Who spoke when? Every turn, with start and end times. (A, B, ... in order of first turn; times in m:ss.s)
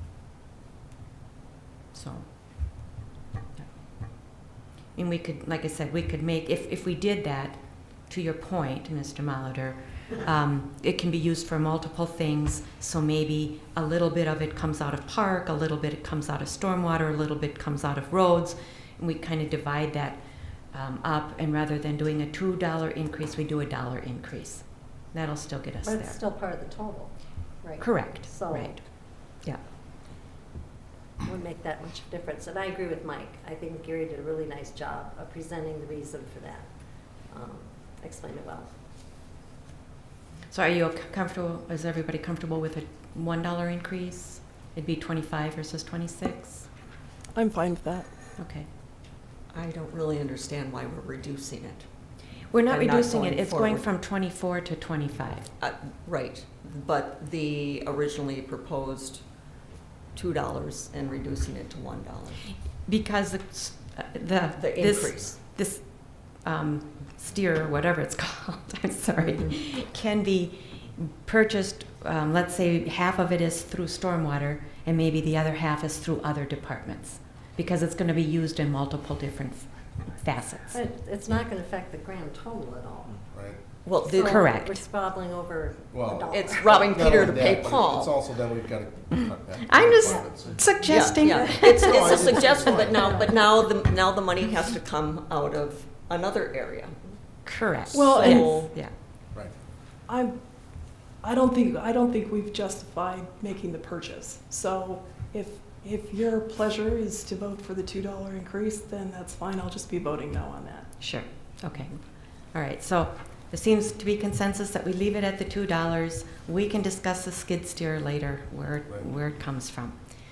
0:01.9-0:02.8 A
0:05.0-0:20.2 A
0:20.7-0:26.2 A
0:25.8-0:28.8 B
0:27.8-0:28.8 A
0:31.2-0:36.7 B
0:37.3-0:38.7 B
0:40.5-0:46.7 A
0:47.3-0:48.1 C
0:48.4-0:48.7 A
0:49.5-0:51.9 D
0:52.5-0:55.5 A
0:52.7-0:53.9 D
0:55.6-0:59.2 D
1:00.1-1:02.4 D
1:02.9-1:20.8 A
1:04.6-1:05.4 D
1:20.7-1:23.2 B
1:23.3-1:23.6 E
1:23.8-1:24.5 D
1:24.0-1:27.2 B
1:24.2-1:24.8 A
1:25.9-1:33.1 E
1:26.3-1:28.1 D
1:29.6-1:32.5 A
1:30.8-1:37.0 D
1:32.9-1:33.3 B
1:37.5-1:38.9 A
1:37.9-1:38.8 D
1:37.9-1:38.7 C
1:40.1-1:40.4 C
1:41.2-1:50.9 C
1:51.0-2:00.0 A